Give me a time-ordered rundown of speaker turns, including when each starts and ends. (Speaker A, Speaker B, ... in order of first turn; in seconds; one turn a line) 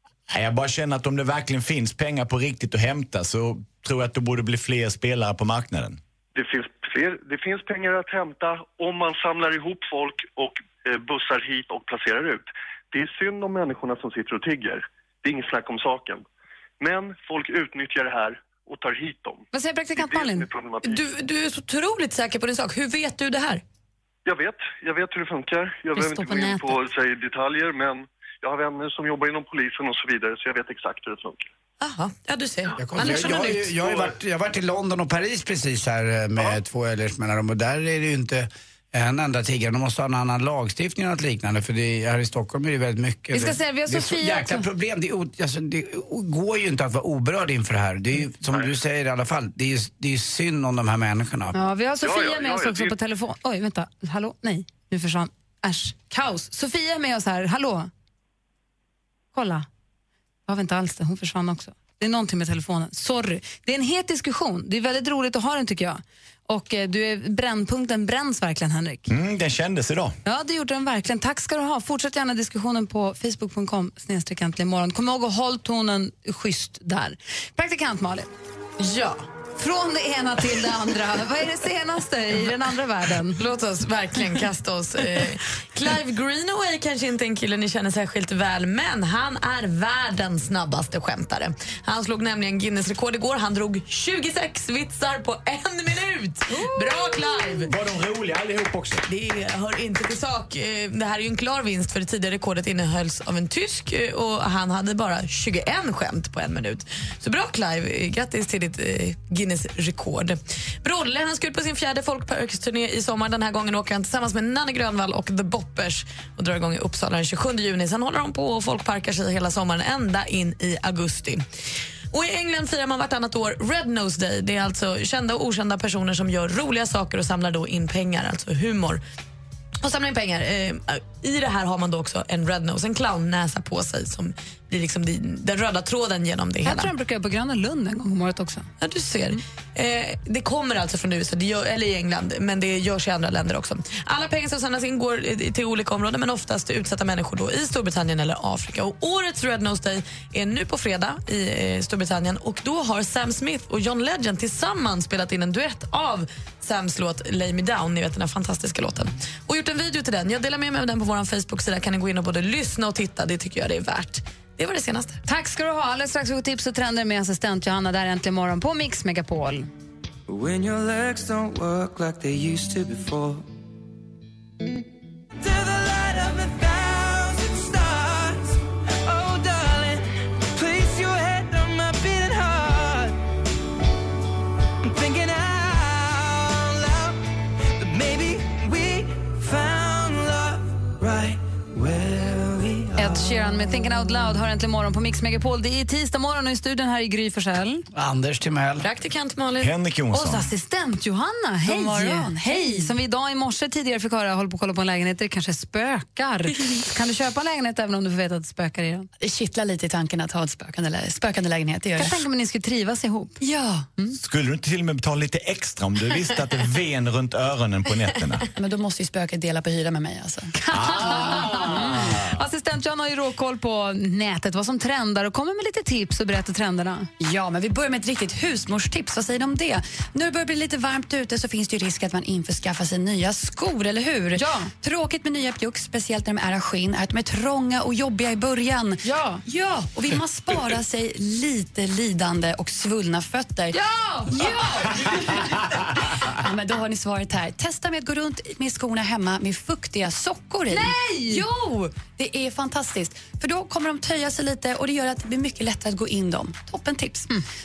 Speaker A: 0.3-6.0
Speaker B: 6.3-16.2
Speaker B: 16.8-21.0
Speaker C: 19.5-20.5
Speaker D: 20.8-23.6
Speaker B: 24.2-31.5
Speaker C: 25.9-26.8
Speaker D: 31.8-32.7
Speaker E: 32.8-51.5
Speaker C: 33.0-33.7
Speaker B: 33.8-34.1
Speaker C: 43.3-44.6
Speaker C: 51.5-57.9
Speaker B: 52.0-52.9
Speaker C: 59.3-59.7
Speaker C: 60.5-69.1
Speaker A: 69.1-70.1
Speaker C: 70.2-78.3
Speaker D: 78.8-79.3
Speaker C: 79.6-83.4
Speaker D: 83.4-97.7
Speaker C: 96.5-97.6
Speaker A: 97.7-99.0
Speaker D: 99.1-121.4
Speaker D: 122.1-129.0
Speaker D: 129.8-136.9
Speaker C: 136.6-138.7
Speaker D: 138.8-165.2
Speaker C: 165.2-169.7
Speaker F: 170.3-173.4
Speaker F: 175.4-183.2
Speaker F: 184.8-187.2
Speaker F: 187.8-193.8
Speaker C: 193.0-197.8
Speaker E: 197.9-198.9
Speaker D: 198.8-199.7
Speaker A: 199.6-200.5
Speaker C: 200.1-209.1
Speaker G: 201.7-202.9
Speaker G: 209.2-212.2
Speaker C: 212.0-213.4
Speaker G: 213.4-213.9
Speaker A: 214.2-218.5
Speaker G: 218.6-220.5
Speaker C: 220.6-227.1
Speaker A: 220.7-222.2
Speaker G: 227.2-243.8
Speaker C: 234.3-234.7
Speaker C: 239.0-239.4
Speaker C: 243.7-245.4
Speaker G: 244.3-245.6
Speaker G: 246.1-257.3
Speaker C: 250.7-251.4